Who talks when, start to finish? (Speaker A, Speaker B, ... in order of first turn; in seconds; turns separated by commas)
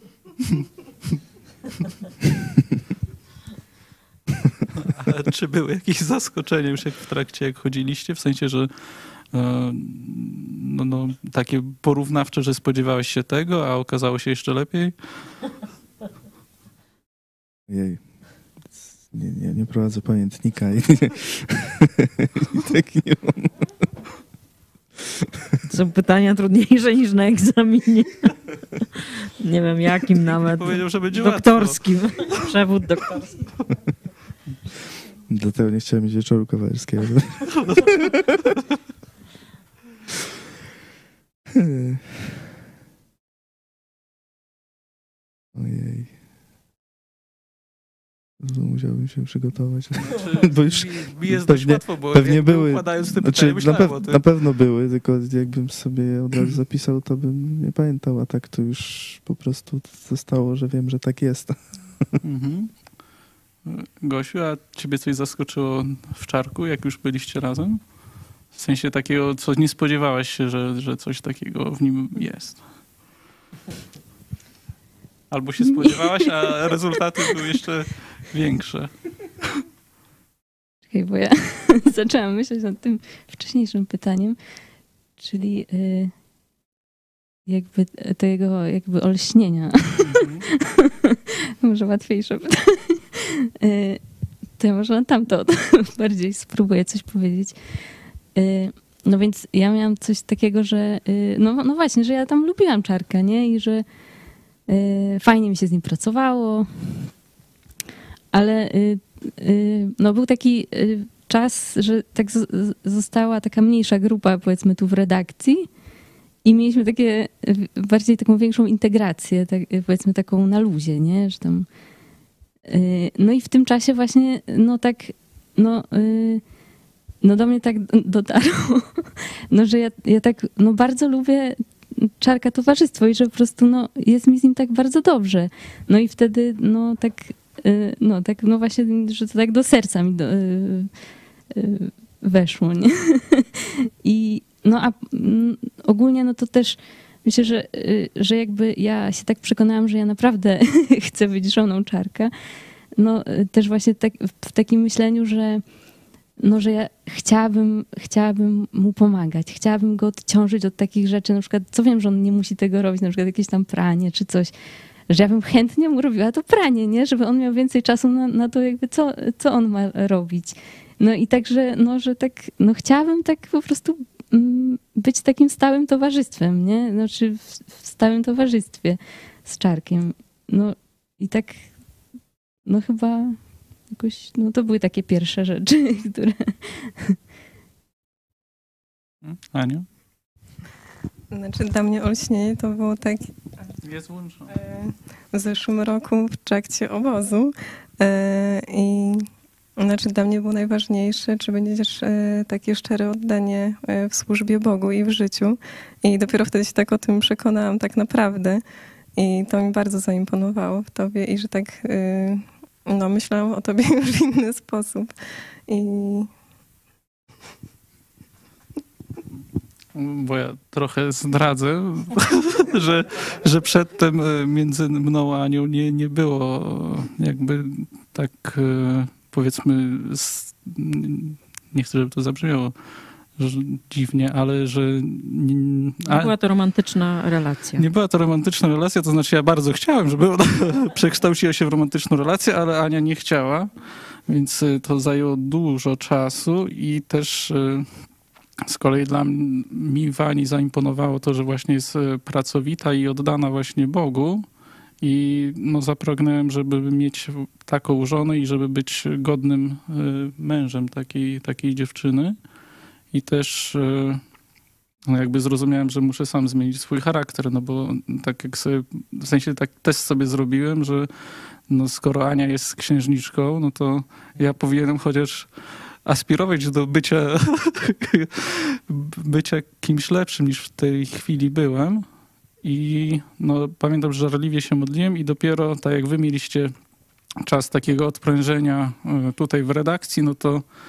Speaker A: 4.8-15.4, Speaker B: 17.7-18.0, Speaker B: 19.0-23.7, Speaker C: 25.7-33.4, Speaker A: 30.2-31.8, Speaker B: 35.3-38.5, Speaker B: 41.5-42.5, Speaker B: 45.5-46.1, Speaker B: 48.4-62.2, Speaker A: 50.0-54.2, Speaker A: 62.2-62.7, Speaker A: 63.6-67.8, Speaker A: 68.5-72.6, Speaker A: 75.3-78.9, Speaker D: 75.7-76.5, Speaker D: 80.9-84.4, Speaker D: 85.2-86.1, Speaker D: 87.5-94.0, Speaker A: 90.1-90.4, Speaker D: 94.6-97.5, Speaker D: 98.3-103.8, Speaker D: 104.7-106.9, Speaker D: 108.3-115.7, Speaker D: 116.4-121.7, Speaker D: 122.7-126.4, Speaker D: 127.2-140.9, Speaker D: 141.5-152.3, Speaker D: 153.0-155.6, Speaker D: 156.4-164.5, Speaker D: 165.1-181.7, Speaker D: 182.7-183.4, Speaker D: 183.9-187.2, Speaker A: 189.2-189.9, Speaker E: 191.3-193.3, Speaker A: 193.8-194.5, Speaker E: 194.5-199.2, Speaker E: 199.8-208.6, Speaker E: 209.2-215.1, Speaker E: 215.7-216.3, Speaker A: 219.9-232.7, Speaker A: 233.4-236.3, Speaker C: 236.1-237.8, Speaker A: 237.8-247.9, Speaker A: 248.7-254.4, Speaker A: 255.0-262.3, Speaker A: 263.1-264.2, Speaker A: 265.1-271.1, Speaker A: 271.7-282.0, Speaker A: 282.6-286.7, Speaker A: 287.4-290.6